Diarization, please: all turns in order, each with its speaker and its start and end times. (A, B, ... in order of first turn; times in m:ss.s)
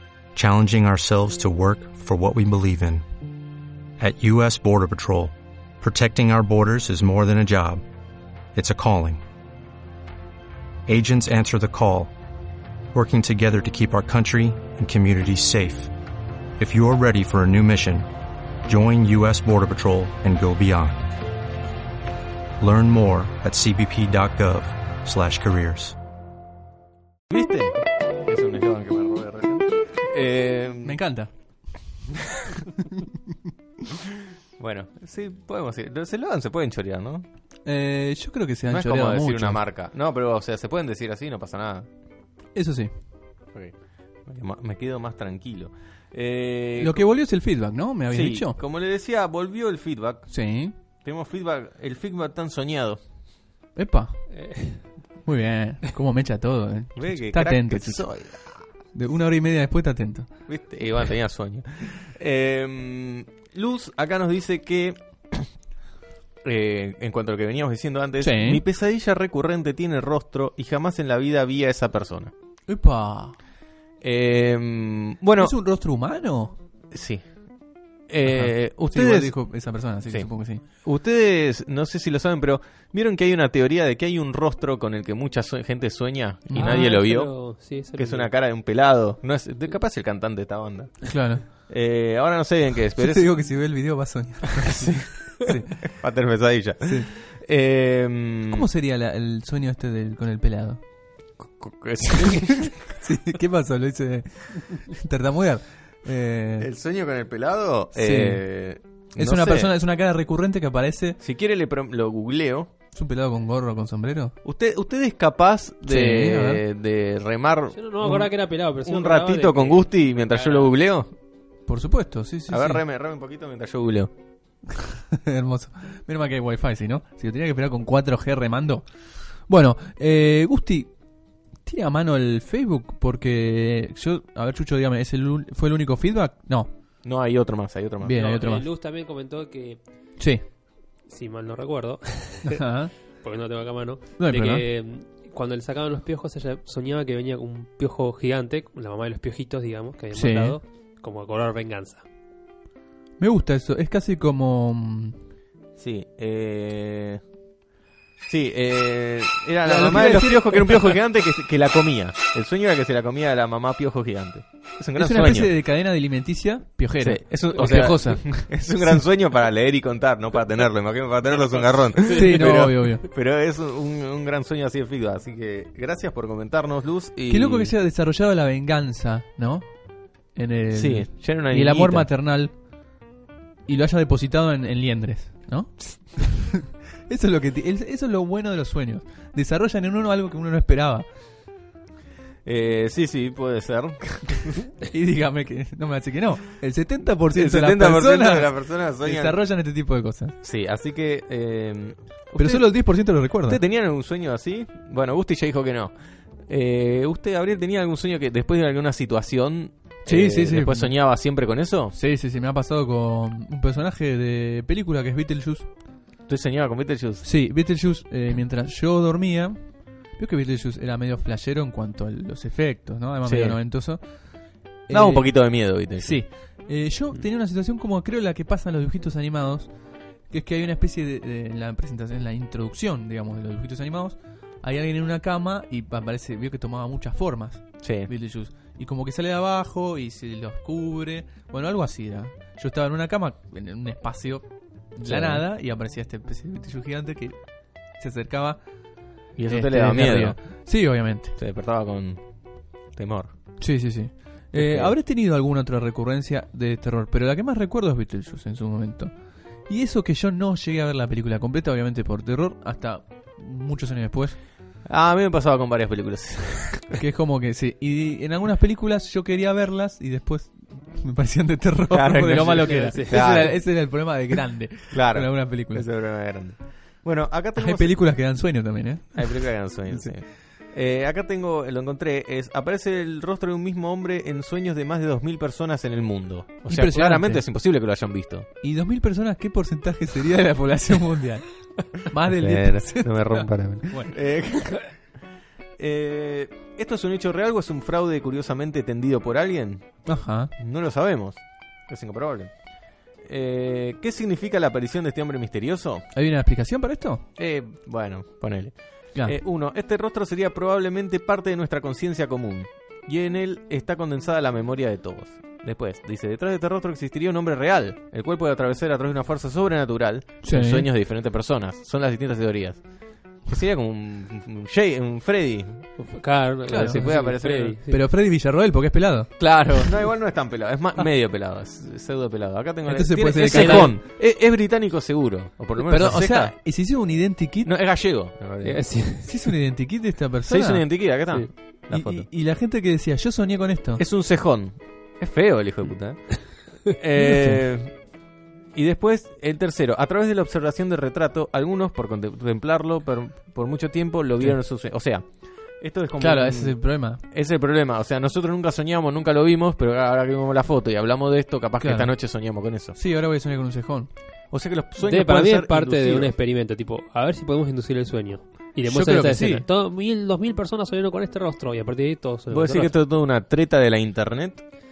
0:00.3-0:03.0 A
0:04.0-0:07.8 A
0:08.5-0:09.2 A
0:10.9-0:12.1 A
0:12.9-0:15.9 A
0:16.6-0:18.1 A
0:18.6-0:21.1 A
0:22.6-0:26.0 A
0:27.3-0:31.0 B
0:30.8-0:31.3 C
0:32.2-0:32.9 C
0:34.6-0:37.2 B
0:37.6-0:39.6 C
0:38.7-0:41.9 B
0:42.5-0:42.9 C
0:44.2-0:47.0 B
0:46.8-0:48.5 C
0:48.1-0:50.3 B
0:50.3-0:50.7 C
0:51.0-0:53.0 B
0:53.8-0:54.2 C
0:54.3-0:54.9 D
0:55.2-0:58.0 C
0:57.0-0:58.5 B
0:58.9-1:00.3 C
1:00.5-1:05.5 B
1:06.4-1:12.3 B
1:08.2-1:08.6 C
1:12.7-1:13.4 C
1:14.0-1:15.6 B
1:15.4-1:16.6 C
1:16.9-1:17.2 B
1:18.1-1:19.3 B
1:18.2-1:20.6 C
1:20.8-1:27.3 B
1:26.5-1:26.9 C
1:26.5-1:28.3 D
1:27.9-1:31.1 B
1:31.0-1:31.4 C
1:31.6-1:33.3 B
1:33.0-1:35.8 C
1:34.6-1:38.7 B
1:38.5-1:40.8 C
1:41.4-1:42.8 B
1:42.2-1:46.7 C
1:46.6-1:49.7 B
1:47.9-1:48.4 C
1:49.1-1:51.2 C
1:51.2-1:52.7 B
1:52.9-1:54.3 C
1:54.4-1:58.2 B
1:55.9-1:56.6 C
1:57.7-2:00.7 D
1:58.8-2:01.1 B
2:01.7-2:02.8 C
2:02.5-2:04.1 B
2:04.8-2:08.8 C
2:09.5-2:10.9 C
2:11.6-2:16.7 C
2:17.0-2:18.2 B
2:18.0-2:18.7 C
2:18.1-2:19.8 D
2:21.0-2:22.6 D
2:22.4-2:22.9 C
2:23.1-2:32.0 D
2:24.2-2:24.6 C
2:30.1-2:30.6 C
2:33.2-2:35.2 C
2:35.8-2:37.2 B
2:38.3-2:45.5 B
2:39.6-2:41.0 C
2:45.0-2:49.0 C
2:47.0-2:57.7 B
2:52.0-2:53.0 C
2:57.3-3:02.6 C
3:00.7-3:02.1 B
3:03.7-3:11.1 C
3:12.4-3:14.7 B
3:14.8-3:20.3 C
3:17.3-3:19.4 B
3:20.4-3:22.7 B
3:22.4-3:23.6 C
3:23.4-3:25.9 B
3:26.5-3:31.9 B
3:30.1-3:30.9 C
3:31.9-3:35.7 C
3:36.3-3:37.2 B
3:37.2-4:08.6 C
3:43.2-3:43.6 B
3:44.9-3:46.2 B
3:57.8-3:58.1 B
4:05.0-4:05.4 B
4:09.4-4:10.4 B
4:09.5-4:11.3 C
4:11.4-4:12.2 B
4:12.9-4:13.3 B
4:13.6-4:19.1 C
4:14.5-4:14.9 B
4:19.6-4:24.4 C
4:24.8-4:27.0 B
4:27.0-4:35.9 C
4:31.9-4:33.6 B
4:32.6-4:33.2 D
4:34.9-4:38.0 B
4:37.6-4:40.1 C
4:39.1-4:48.5 B
4:46.6-4:47.4 C
4:48.6-4:54.1 C
4:52.3-4:55.0 B
4:55.8-4:59.9 B
5:00.0-5:00.5 C
5:00.6-5:02.5 B
5:03.2-5:06.0 B
5:06.1-5:07.2 C
5:07.4-5:25.8 B
5:20.4-5:20.9 C
5:26.0-5:28.0 D
5:26.7-5:29.9 C
5:26.7-5:27.7 B
5:29.4-5:36.6 B
5:32.8-5:34.0 C
5:33.4-5:33.9 D
5:35.8-5:37.7 C
5:37.6-5:38.8 B
5:38.6-5:39.5 D
5:39.0-5:41.1 C
5:40.4-5:42.3 B
5:41.8-5:44.0 C
5:44.0-5:48.0 B
5:47.2-5:47.6 C
5:48.7-5:55.2 B
5:55.8-6:03.0 B
5:56.2-5:57.2 C
6:01.8-6:02.4 C
6:02.9-6:04.1 C
6:04.5-6:06.3 B
6:05.0-6:13.0 D
6:08.8-6:09.6 C
6:12.5-6:14.6 B